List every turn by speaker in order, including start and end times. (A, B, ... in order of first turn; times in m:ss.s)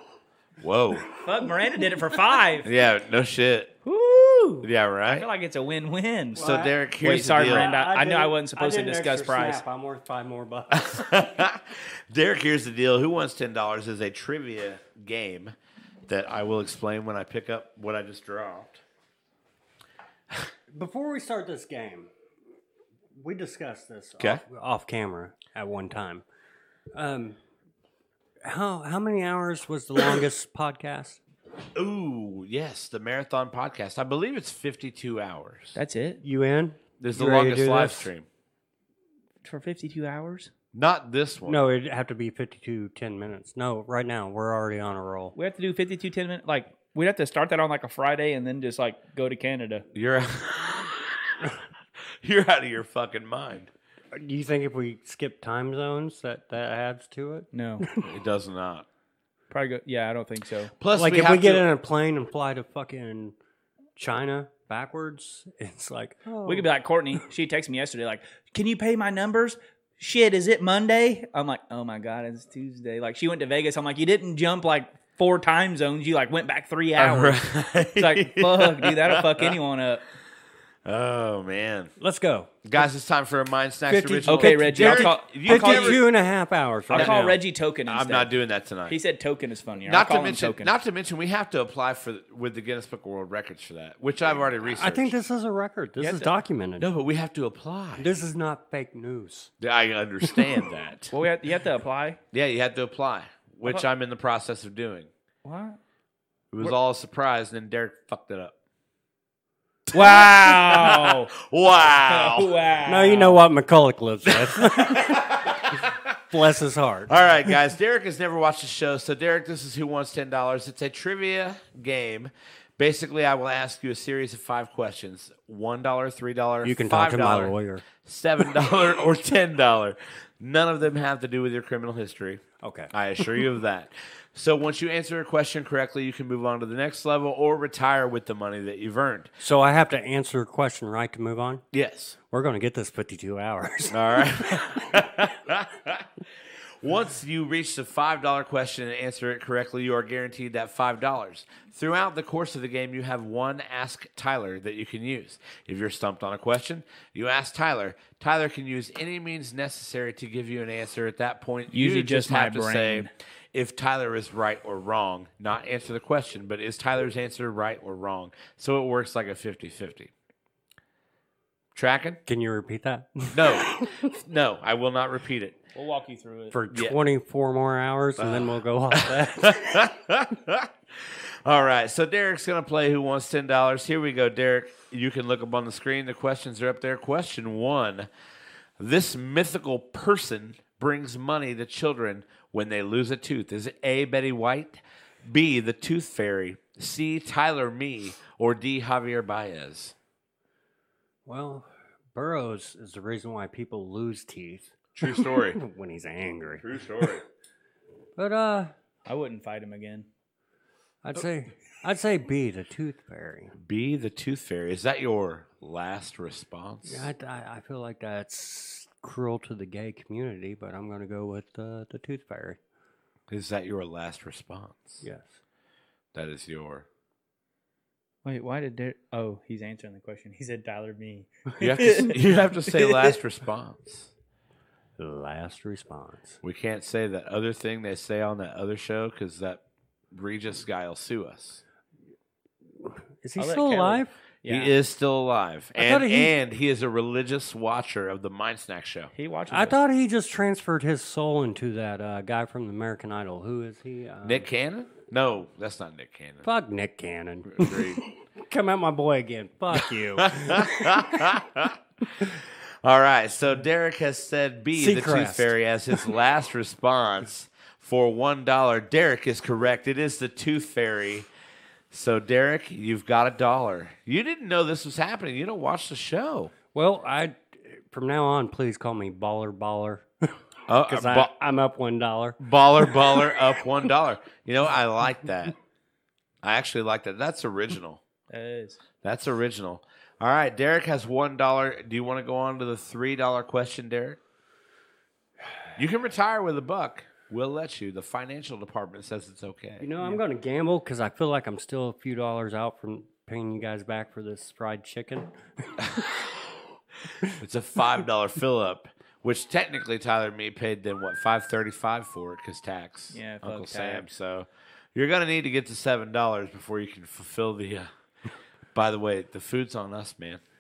0:00.6-0:01.1 A
0:01.2-0:02.7 B
0:02.6-0:03.7 A
0:03.8-0:09.6 B
0:04.6-0:05.3 A
0:06.4-0:11.2 C
0:06.4-0:07.7 A
0:10.7-0:15.6 A
0:16.1-0:18.8 A
0:20.7-0:22.1 C
0:23.2-0:26.2 C
0:26.9-0:27.4 C
0:28.4-0:31.2 C
0:31.8-0:35.8 A
0:35.8-0:36.2 B
0:36.2-0:38.1 C
0:37.0-0:38.3 A
0:39.4-0:40.5 B
0:40.7-0:41.6 A
0:41.4-0:45.4 C
0:45.4-0:49.9 B
0:49.9-0:51.5 A
0:52.2-0:53.7 A
0:54.1-0:58.1 C
0:57.5-0:57.8 B
0:58.0-0:58.9 A
0:59.5-1:00.8 B
1:00.8-1:01.7 A
1:00.9-1:03.4 C
1:04.0-1:06.7 C
1:06.4-1:17.4 B
1:17.0-1:19.5 A
1:18.0-1:20.0 B
1:20.9-1:21.9 A
1:22.0-1:22.5 C
1:22.6-1:26.0 A
1:23.9-1:27.4 C
1:24.3-1:26.1 B
1:26.9-1:28.3 B
1:26.9-1:27.3 A
1:27.9-1:29.0 A
1:28.9-1:30.7 B
1:29.9-1:35.2 A
1:34.6-1:36.9 C
1:36.0-1:36.3 B
1:36.8-1:38.1 A
1:38.0-1:39.5 C
1:39.6-1:41.1 A
1:40.2-1:40.7 C
1:41.1-1:42.2 B
1:42.3-1:45.1 A
1:45.4-1:45.8 B
1:46.5-1:48.6 A
1:49.9-1:52.5 A
1:49.9-1:51.3 B
1:52.0-1:53.4 B
1:52.9-1:57.6 C
1:54.3-1:56.2 A
1:57.1-2:19.3 A
2:06.6-2:07.9 C
2:12.6-2:13.4 C
2:19.4-2:21.6 C
2:21.7-2:22.2 A
2:22.3-2:25.1 C
2:23.9-2:26.1 A
2:26.8-2:50.1 A
2:41.7-2:43.1 B
2:51.8-2:52.2 A
2:52.3-2:54.1 C
2:53.3-2:55.6 A
2:55.8-2:56.6 B
2:56.5-2:59.9 C
2:58.2-3:08.1 A
3:08.8-3:20.0 A
3:21.3-3:27.1 C
3:25.0-3:25.6 A
3:26.6-3:27.2 A
3:28.2-3:28.7 C
3:29.1-3:30.1 B
3:31.0-3:33.6 C
3:33.6-3:37.1 A
3:36.9-3:42.6 C
3:43.3-3:45.0 A
3:45.0-3:45.4 C
3:46.1-3:46.9 A
3:48.2-3:53.2 B
3:51.6-3:54.1 A
3:55.0-3:56.4 C
3:56.4-4:01.6 A
4:02.8-4:04.1 C
4:03.4-4:04.7 B
4:04.5-4:09.1 A
4:05.8-4:06.4 C
4:09.2-4:09.8 B
4:09.5-4:14.5 C
4:14.2-4:16.5 A
4:16.4-4:21.6 C
4:17.5-4:18.0 A
4:19.8-4:31.3 A
4:24.7-4:26.1 C
4:31.9-4:36.5 A
4:36.7-4:43.4 C
4:40.7-4:41.3 A
4:42.4-4:45.6 A
4:46.4-4:48.0 A
4:48.3-4:48.8 B
4:49.0-4:54.2 A
4:55.8-5:00.1 A
4:59.8-5:06.1 C
5:07.3-5:17.9 A
5:13.1-5:14.0 B
5:18.8-5:20.4 A